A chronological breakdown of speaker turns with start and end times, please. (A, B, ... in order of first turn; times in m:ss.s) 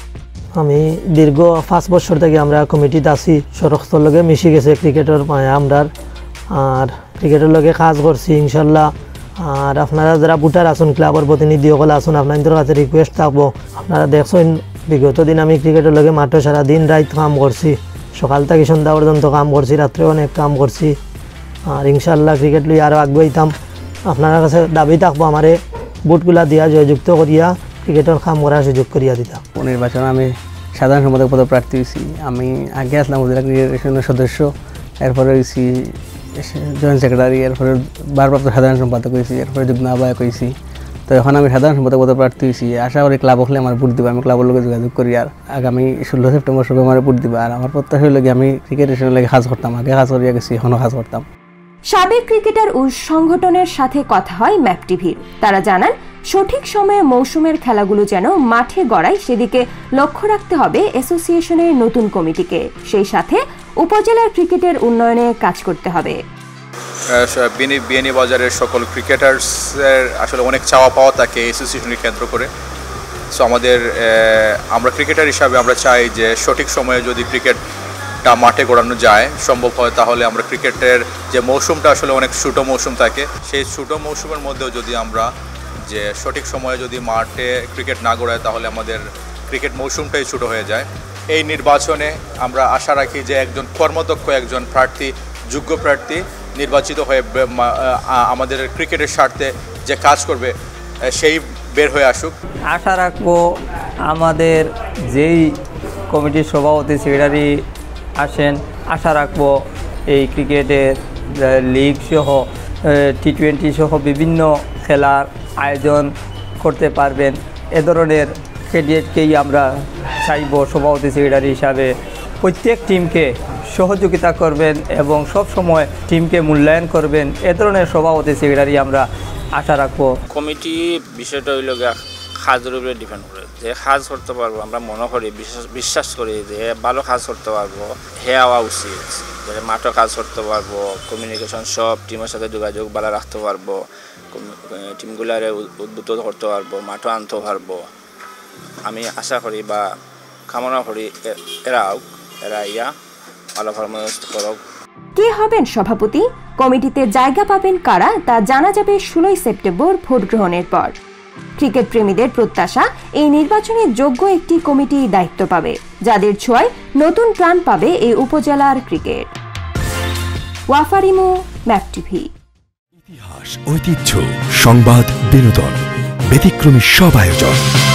0:00.6-0:05.9 A
0:06.5-0:21.0 A
0:21.7-0:23.5 A
0:24.1-0:29.4 A
0:29.6-0:34.5 B
0:35.0-0:40.5 B
0:41.1-0:51.2 B
0:51.9-1:06.2 C
1:07.2-1:12.5 D
1:13.3-1:17.6 D
1:18.2-1:25.3 D
1:25.9-1:40.5 D
1:41.1-1:42.3 D
1:42.7-1:43.4 E
1:44.0-1:45.4 E
1:46.1-1:47.5 E
1:48.2-1:49.5 E
1:50.1-1:56.1 E
1:56.6-1:59.6 E
2:00.2-2:01.9 E
2:02.4-2:09.0 E
2:09.6-2:10.1 E
2:10.3-2:27.8 F
2:28.9-2:29.8 F
2:30.5-2:32.9 F
2:33.6-2:34.6 F
2:35.2-2:40.9 C
2:41.6-2:49.3 C
2:50.7-2:52.3 C
2:53.0-2:55.8 G
2:56.3-2:57.6 G